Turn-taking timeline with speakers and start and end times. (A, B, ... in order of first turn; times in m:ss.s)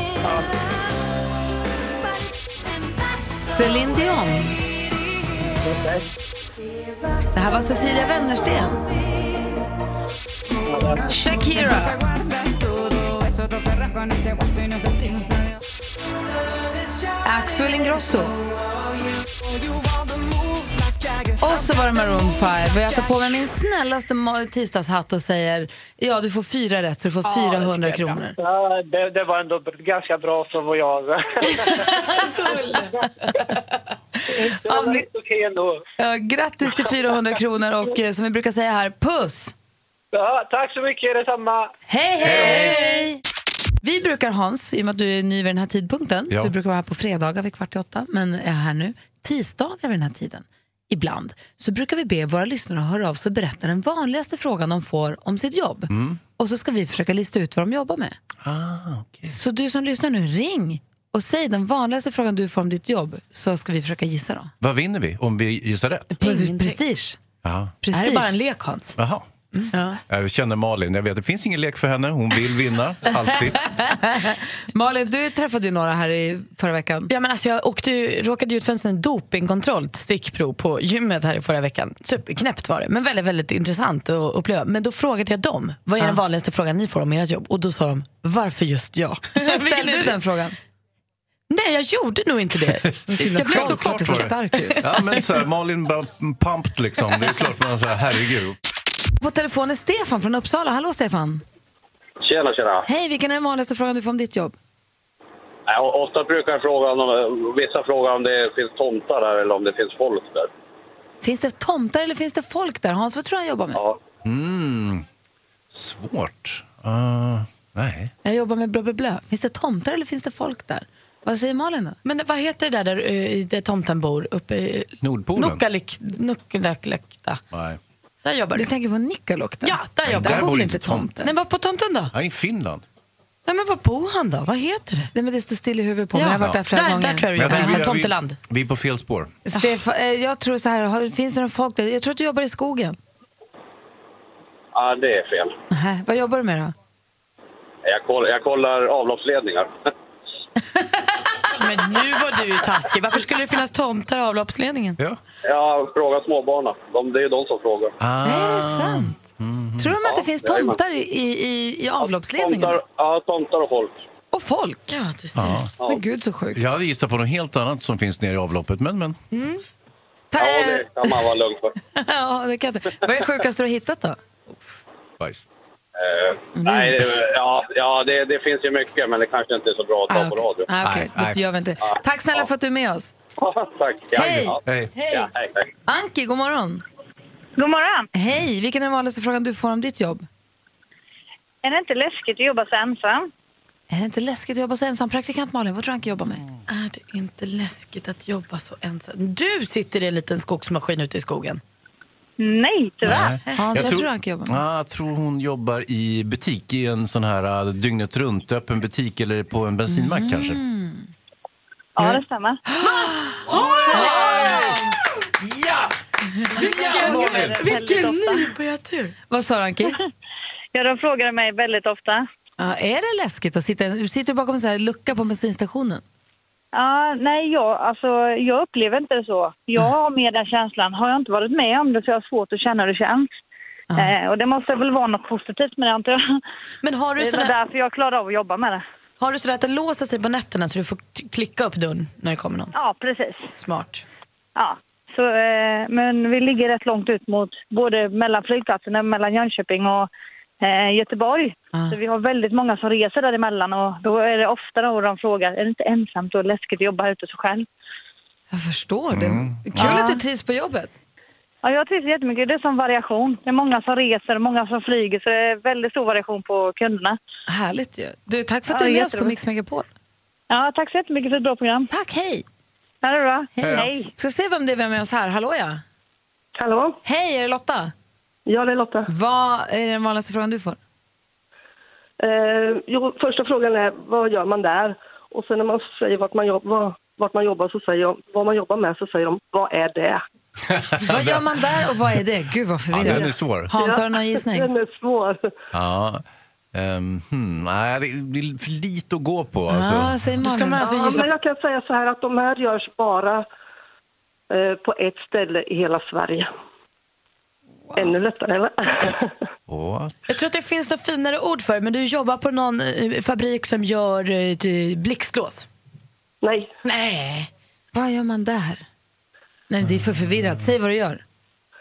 0:00.2-0:00.5 A
0:03.4-0:04.6 B
0:05.6-0:06.1 A
0:07.3-0:08.8 B
0:10.7-0:11.1 A
0:11.0-0:12.0 B
0:17.2-0:18.3 B
0:21.4-0:28.4 B
0:27.5-0:28.0 C
0:28.4-0:33.5 A
0:31.7-0:32.5 B
0:34.3-0:35.8 A
0:34.7-0:35.1 B
0:36.0-0:39.5 B
0:40.1-0:41.7 A
0:41.9-0:43.2 B
0:42.3-0:42.6 D
0:42.3-0:42.7 A
0:43.8-0:58.2 B
0:55.9-0:56.2 D
0:58.4-0:59.3 D
0:59.2-1:04.5 B
1:04.6-1:06.1 D
1:06.1-1:06.8 C
1:06.2-1:07.2 B
1:07.4-1:07.8 D
1:07.8-1:08.4 B
1:07.9-1:09.0 C
1:09.0-1:09.3 D
1:09.5-1:09.8 C
1:10.1-1:13.6 D
1:13.3-1:17.1 B
1:17.1-1:30.2 C
1:29.4-1:30.6 B
1:31.5-1:34.3 C
1:33.1-1:34.8 B
1:33.4-1:38.6 D
1:39.2-1:41.4 B
1:42.2-1:42.9 E
1:42.9-1:44.5 B
1:45.7-1:50.5 E
1:51.2-1:53.8 B
1:53.7-1:54.0 E
1:54.2-1:55.0 D
1:55.7-1:58.1 D
1:58.2-2:02.0 B
2:02.0-2:07.4 C
2:05.0-2:05.6 D
2:08.2-2:08.7 C
2:08.5-2:11.3 B
2:09.6-2:10.6 C
2:10.0-2:11.1 D
2:11.2-2:12.1 C
2:12.1-2:12.8 D
2:13.5-2:15.1 C
2:15.1-2:17.9 B
2:16.1-2:18.4 C
2:17.4-2:19.4 D
2:19.5-2:23.0 B
2:24.8-2:25.6 E
2:25.7-2:26.7 B
2:27.8-2:29.7 E
2:31.5-2:35.0 C
2:35.4-2:38.0 E
2:38.0-2:39.9 D
2:38.2-2:39.2 B
2:39.8-2:42.8 B
2:40.0-2:40.8 E
2:42.0-2:44.0 E
2:44.3-2:45.0 B
2:44.9-2:45.6 C
2:45.4-2:45.7 D
2:45.8-2:46.7 B
2:46.5-2:49.2 D
2:49.3-2:49.6 C
2:50.3-2:51.1 B
2:50.4-2:51.8 E
2:51.9-2:54.2 B
2:56.0-3:00.7 E
2:56.6-2:57.1 B
3:00.1-3:03.1 B
3:00.8-3:01.4 D
3:03.4-3:05.7 E
3:04.2-3:05.3 B
3:04.6-3:04.9 D
3:05.9-3:06.8 B
3:07.6-3:08.1 F
3:08.2-3:10.3 B
3:11.6-3:13.3 F
3:13.9-3:16.4 B
3:16.7-3:21.6 C
3:22.4-3:23.2 F
3:23.0-3:30.6 D
3:23.3-3:23.9 C
3:23.5-3:24.6 B
3:29.9-3:31.1 B
3:32.0-3:32.6 F
3:32.7-3:35.0 B
3:32.8-3:34.9 C
3:33.5-3:34.5 D
3:36.6-3:39.1 C
3:36.6-3:37.6 D
3:37.0-3:38.5 F
3:39.3-3:40.0 B
3:40.8-3:42.2 F
3:42.6-3:46.0 B
3:46.8-3:53.3 F
3:54.0-3:56.4 F
3:56.8-3:57.6 C
3:57.2-3:58.8 F
3:59.2-4:02.7 C
4:02.8-4:03.5 F
4:03.6-4:04.0 C
4:04.6-4:10.1 F
4:10.6-4:17.7 F
4:18.5-4:20.9 B
4:19.1-4:20.0 D
4:21.6-4:27.2 F
4:27.5-4:29.9 B
4:28.7-4:29.4 F
4:30.5-4:31.9 F
4:31.9-4:32.4 B
4:33.0-4:34.1 F
4:33.6-4:35.8 B
4:33.6-4:33.9 D
4:36.6-4:37.0 G
4:37.0-4:37.9 B
4:38.5-4:39.1 G
4:39.1-4:40.8 B
4:42.2-4:50.2 G
4:50.7-4:51.5 D
4:51.1-4:54.7 B
4:52.9-4:53.7 D
4:53.7-4:55.4 G
4:55.7-5:00.2 D
4:59.7-5:00.9 B
5:00.4-5:01.3 C
5:00.8-5:03.4 G
5:04.5-5:06.5 G
5:08.0-5:09.3 G
5:09.7-5:10.2 D
5:10.3-5:15.7 C
5:16.4-5:16.7 G
5:16.8-5:17.5 C
5:17.9-5:18.8 B
5:19.7-5:21.2 B